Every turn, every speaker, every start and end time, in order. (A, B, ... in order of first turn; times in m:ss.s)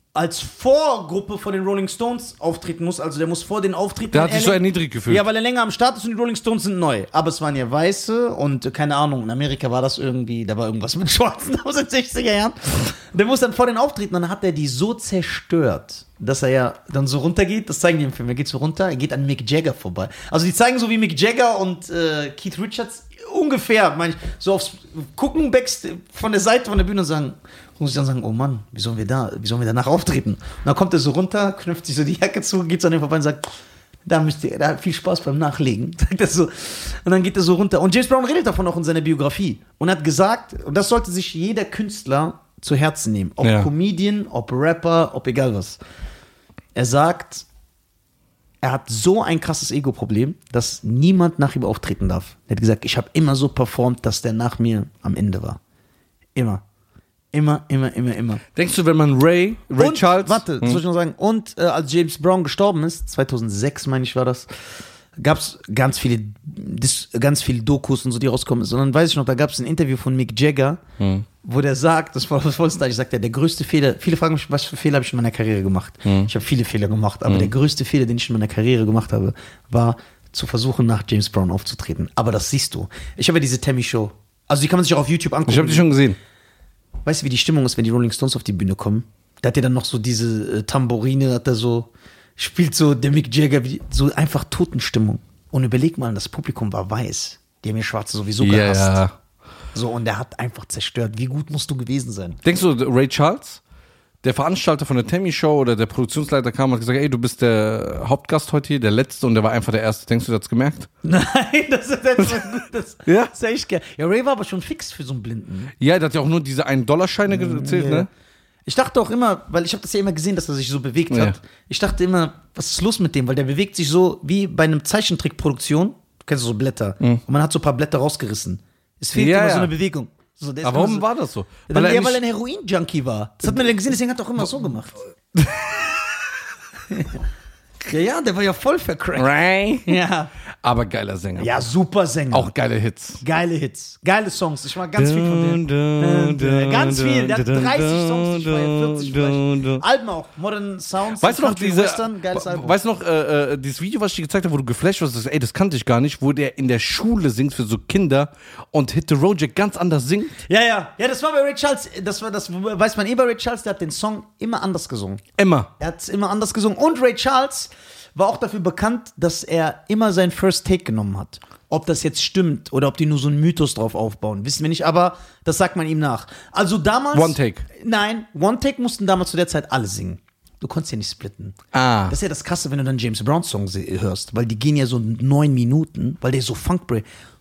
0:00.1-0:33.4 A
0:04.1-0:05.2 B
0:34.0-0:45.8 A
0:43.4-0:43.7 B
0:46.7-0:47.4 A
0:48.6-0:55.6 A
0:56.4-0:56.6 A
0:57.3-0:58.4 A
0:58.5-1:00.8 B
0:59.8-1:04.5 A
1:05.2-1:10.8 A
1:11.0-1:11.2 B
1:11.4-1:25.9 A
1:16.0-1:16.3 B
1:17.3-1:17.5 B
1:25.5-1:26.2 B
1:27.0-1:39.0 A
1:38.4-1:39.1 B
1:39.7-1:42.4 A
1:42.4-1:43.6 B
1:44.2-1:50.9 B
1:51.0-1:55.7 A
1:52.2-1:52.4 B
1:53.1-1:53.3 B
1:55.8-1:58.1 B
1:57.3-1:58.1 A
1:58.6-2:11.0 A
2:01.1-2:01.4 B
2:09.1-2:09.7 B
2:10.6-2:12.2 B
2:11.7-2:15.0 A
2:15.3-2:16.1 B
2:16.9-2:17.2 A
2:17.8-2:19.3 A
2:19.2-2:19.9 B
2:19.8-2:20.3 A
2:20.6-2:21.6 B
2:21.4-2:22.5 A
2:22.3-2:23.2 B
2:23.2-2:32.8 A
2:24.9-2:29.8 B
2:31.2-2:40.4 B
2:40.4-2:45.2 A
2:45.4-2:45.7 B
2:45.8-3:01.6 A
2:57.1-2:57.6 B
3:01.7-3:02.1 B
3:02.1-3:07.0 A